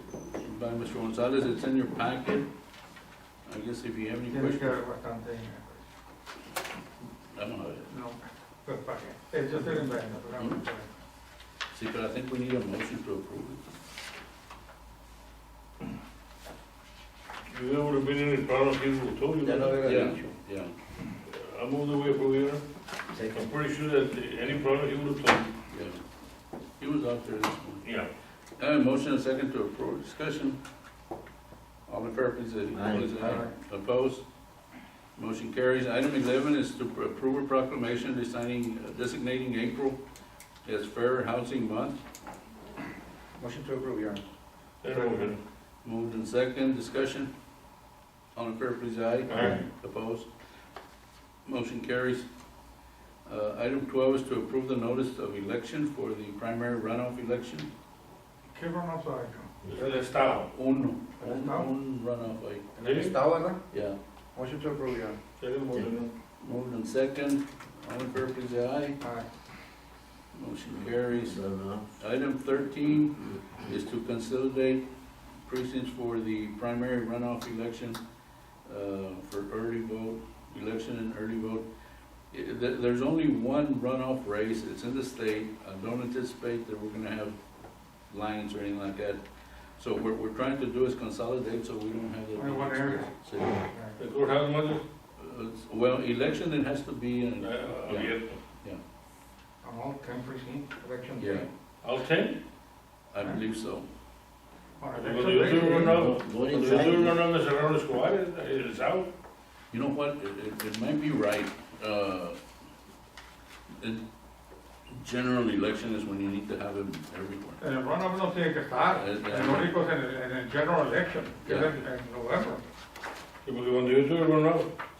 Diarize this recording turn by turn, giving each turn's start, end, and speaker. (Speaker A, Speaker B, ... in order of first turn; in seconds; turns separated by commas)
Speaker A: 0.4-2.5, Speaker A: 3.5-4.8, Speaker B: 4.3-5.8, Speaker A: 7.3-7.9, Speaker B: 7.9-10.9, Speaker A: 11.7-13.6, Speaker C: 17.5-19.9, Speaker D: 19.4-20.3, Speaker A: 19.8-20.7, Speaker C: 21.3-22.6, Speaker E: 23.1-23.5, Speaker C: 23.3-25.5, Speaker A: 25.7-26.0, Speaker A: 26.8-27.8, Speaker C: 27.8-28.1, Speaker A: 28.6-30.6, Speaker A: 31.9-34.2, Speaker E: 32.7-33.5, Speaker B: 33.2-33.5, Speaker A: 35.1-40.0, Speaker A: 40.6-42.0, Speaker D: 43.4-44.2, Speaker C: 44.8-45.4, Speaker D: 44.9-45.3, Speaker A: 45.8-47.3, Speaker A: 48.3-50.3, Speaker C: 49.3-49.6, Speaker A: 51.4-52.3, Speaker A: 53.2-57.7, Speaker B: 58.5-59.5, Speaker C: 59.6-60.5, Speaker A: 60.5-62.7, Speaker B: 61.2-61.7, Speaker D: 62.8-63.6, Speaker C: 62.8-63.2, Speaker A: 63.7-64.0, Speaker D: 64.3-65.2, Speaker C: 65.4-66.1, Speaker A: 66.4-69.0, Speaker B: 69.0-69.2, Speaker A: 70.3-71.4, Speaker E: 71.2-71.8, Speaker A: 72.0-74.8, Speaker A: 75.4-78.0, Speaker A: 78.7-81.7, Speaker A: 82.3-87.3, Speaker A: 88.1-89.2, Speaker A: 89.8-93.6, Speaker B: 92.3-94.0, Speaker C: 94.0-94.8, Speaker A: 95.2-98.8, Speaker C: 97.4-98.4, Speaker B: 99.6-101.5, Speaker A: 101.2-101.5, Speaker C: 101.8-102.4, Speaker A: 103.1-103.9, Speaker B: 104.8-106.0, Speaker C: 104.9-109.1, Speaker E: 105.7-107.2, Speaker A: 109.7-112.4, Speaker A: 114.9-117.6, Speaker B: 117.6-122.6, Speaker A: 118.9-119.7, Speaker A: 121.4-121.8, Speaker C: 123.4-124.7